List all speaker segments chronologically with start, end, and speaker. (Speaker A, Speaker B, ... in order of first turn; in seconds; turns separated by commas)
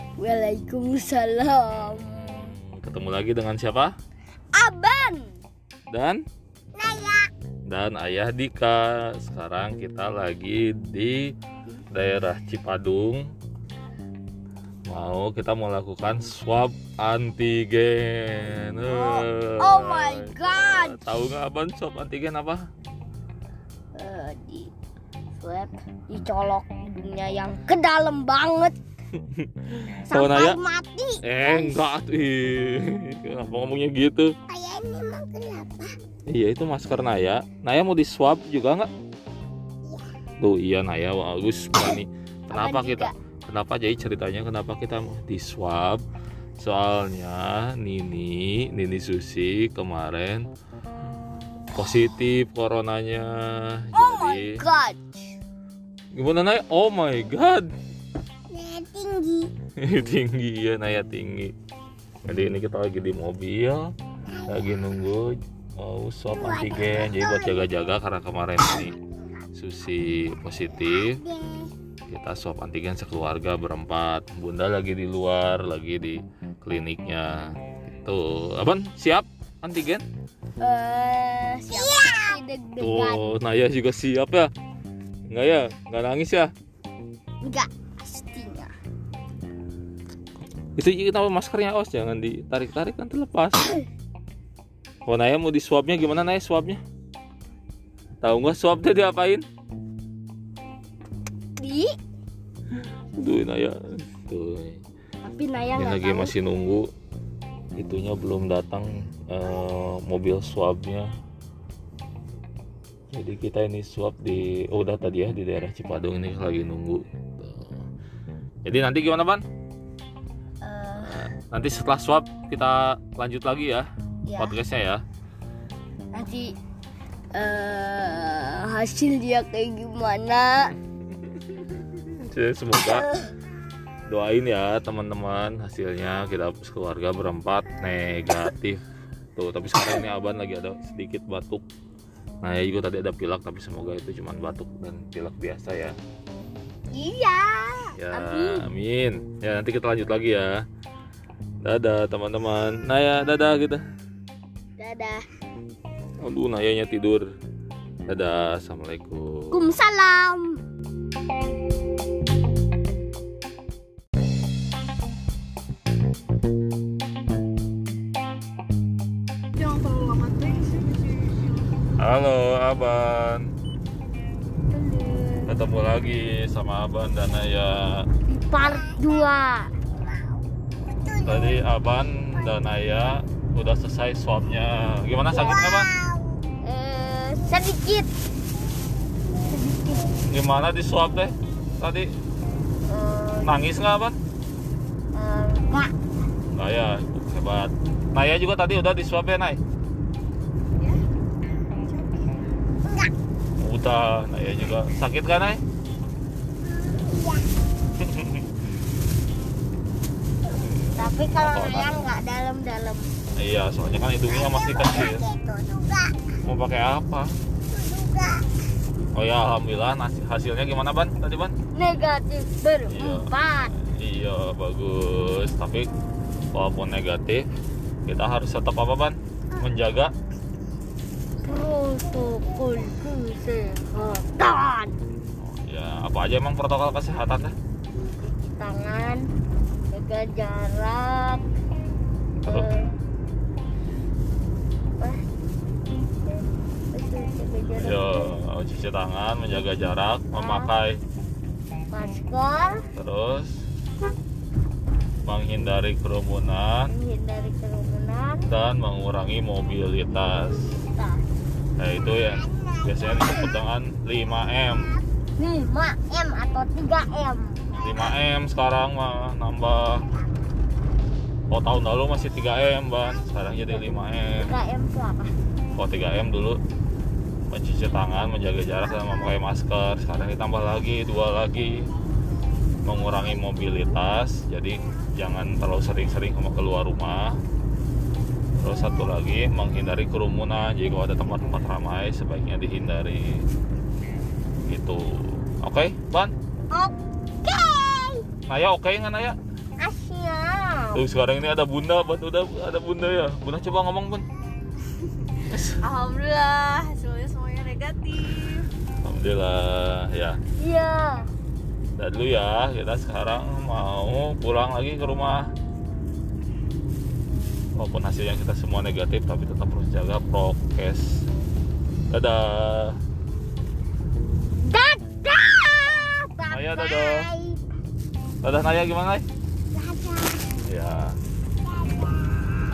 Speaker A: 0.2-2.5, Speaker B: 2.1-4.0, Speaker A: 4.5-5.4, Speaker B: 5.9-6.2, Speaker A: 6.8-7.3, Speaker B: 7.7-11.3, Speaker B: 11.9-13.3, Speaker B: 14.9-22.7, Speaker A: 18.9-21.1, Speaker A: 23.9-24.7, Speaker A: 25.4-28.8, Speaker B: 29.1-30.6, Speaker A: 30.0-31.8, Speaker B: 31.2-34.3, Speaker A: 34.5-35.9, Speaker B: 36.3-38.9, Speaker B: 40.4-46.0, Speaker A: 42.5-43.1, Speaker B: 46.6-50.5, Speaker B: 51.7-54.6, Speaker A: 54.0-55.3, Speaker B: 56.1-57.7, Speaker A: 58.5-59.5, Speaker B: 59.8-61.5, Speaker B: 62.2-63.9, Speaker B: 64.5-69.0, Speaker B: 69.6-71.2, Speaker A: 71.2-71.7, Speaker B: 72.1-80.0, Speaker A: 80.6-83.2, Speaker B: 82.8-84.5, Speaker B: 85.3-86.5, Speaker A: 87.4-88.7, Speaker B: 90.8-93.7, Speaker B: 95.1-96.8, Speaker B: 98.2-99.5, Speaker A: 101.6-102.0, Speaker B: 103.2-104.8, Speaker A: 105.2-106.3, Speaker B: 105.8-106.9, Speaker B: 107.8-111.1, Speaker B: 113.1-117.8, Speaker B: 118.6-119.4, Speaker A: 120.6-121.3, Speaker B: 121.0-125.0, Speaker A: 124.3-124.6, Speaker A: 126.1-126.6, Speaker A: 127.3-130.8, Speaker B: 132.0-133.1, Speaker A: 132.9-133.2, Speaker B: 134.1-138.8, Speaker B: 139.4-141.7, Speaker B: 142.4-146.0, Speaker A: 146.9-148.7, Speaker B: 148.0-150.7, Speaker B: 151.6-153.8, Speaker A: 154.8-155.3, Speaker B: 156.2-157.3, Speaker B: 158.1-159.7, Speaker A: 159.5-160.6, Speaker C: 169.6-171.9, Speaker B: 172.0-173.5, Speaker A: 174.7-175.6, Speaker B: 175.5-178.1, Speaker A: 178.3-179.8, Speaker B: 181.2-186.0, Speaker A: 186.6-188.1, Speaker A: 189.5-190.1, Speaker B: 190.3-192.1, Speaker A: 192.9-193.7, Speaker B: 193.4-194.2, Speaker A: 195.1-195.9, Speaker B: 196.5-199.6, Speaker C: 201.8-202.4, Speaker B: 203.6-205.6, Speaker A: 206.8-207.4, Speaker B: 208.0-208.5, Speaker B: 210.5-211.9, Speaker A: 210.9-213.1, Speaker B: 213.4-215.2, Speaker A: 214.9-216.2, Speaker B: 216.4-217.3, Speaker A: 217.7-218.4, Speaker B: 219.2-221.6, Speaker A: 221.7-223.7, Speaker B: 222.9-225.9, Speaker B: 226.5-227.5, Speaker B: 228.1-230.1, Speaker A: 231.4-235.0, Speaker B: 235.4-237.6, Speaker A: 238.1-239.2, Speaker A: 239.9-241.4, Speaker B: 242.4-242.7, Speaker A: 242.5-242.9, Speaker A: 246.9-248.3, Speaker B: 247.8-251.0, Speaker A: 250.3-250.7, Speaker A: 251.9-252.9, Speaker B: 252.9-253.7, Speaker B: 255.2-256.9, Speaker A: 256.9-258.5, Speaker B: 258.5-260.8, Speaker A: 260.6-261.2, Speaker B: 261.8-265.0, Speaker A: 265.4-267.8, Speaker B: 267.7-270.1, Speaker B: 271.5-274.5, Speaker A: 274.4-275.3, Speaker B: 275.8-276.6, Speaker B: 277.5-281.9, Speaker B: 282.8-287.4, Speaker B: 288.6-293.5, Speaker B: 294.7-296.3, Speaker A: 296.7-298.2, Speaker B: 298.5-299.4, Speaker A: 299.8-301.0, Speaker B: 300.9-304.3, Speaker B: 305.4-305.8, Speaker C: 305.8-308.7, Speaker B: 309.0-310.4, Speaker A: 310.6-311.3, Speaker B: 311.9-315.5, Speaker B: 317.8-321.3, Speaker B: 322.1-323.0, Speaker A: 324.6-327.6, Speaker B: 326.5-327.3, Speaker B: 328.4-329.3, Speaker A: 329.7-330.5, Speaker B: 330.6-331.2, Speaker A: 331.9-332.1